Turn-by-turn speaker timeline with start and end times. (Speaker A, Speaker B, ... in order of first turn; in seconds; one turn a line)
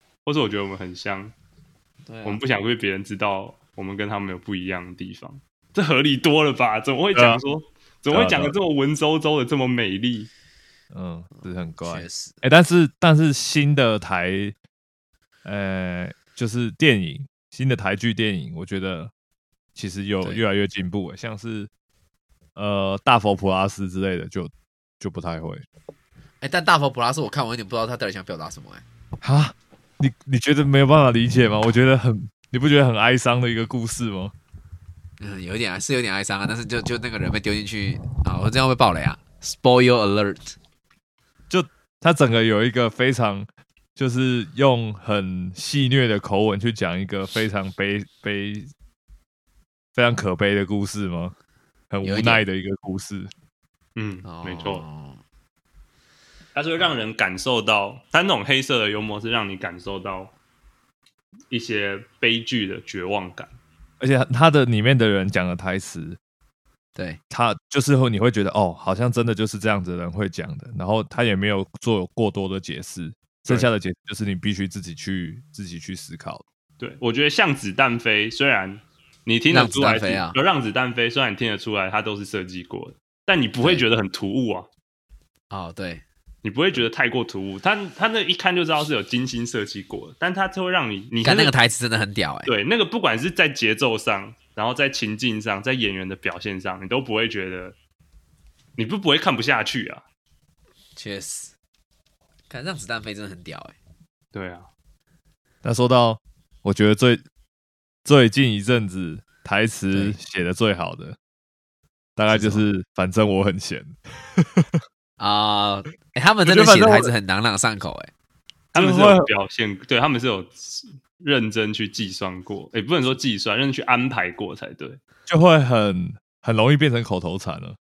Speaker A: 0.3-1.3
Speaker B: 2.1-2.4
Speaker A: 2.2-10.3
Speaker C: 7.1-7.4
Speaker C: 8.1-8.6
Speaker C: 10.9-14.6
Speaker B: 11.4-12.4
Speaker C: 15.4-19.1
Speaker C: 19.8-21.7
Speaker C: 22.6-25.6
Speaker B: 26.4-28.8
Speaker C: 29.2-34.3
Speaker B: 35.2-40.6
Speaker C: 41.5-48.7
Speaker C: 50.0-51.3
Speaker C: 51.9-53.3
Speaker B: 52.0-52.5
Speaker A: 54.0-54.8
Speaker B: 54.2-55.2
Speaker A: 56.5-60.4
Speaker A: 61.5-63.6
Speaker C: 64.0-66.2
Speaker C: 67.3-76.4
Speaker A: 76.8-84.7
Speaker B: 79.5-80.4
Speaker B: 85.5-86.0
Speaker A: 86.4-91.5
Speaker B: 91.2-92.5
Speaker A: 92.5-97.8
Speaker A: 98.8-100.0
Speaker B: 101.0-101.5
Speaker B: 102.5-103.8
Speaker A: 104.3-104.7
Speaker C: 105.6-107.2
Speaker C: 108.0-111.2
Speaker B: 109.9-110.2
Speaker C: 112.2-114.8
Speaker B: 112.3-112.7
Speaker B: 115.2-118.1
Speaker C: 116.5-117.1
Speaker A: 118.7-125.0
Speaker C: 118.7-119.3
Speaker C: 125.3-127.8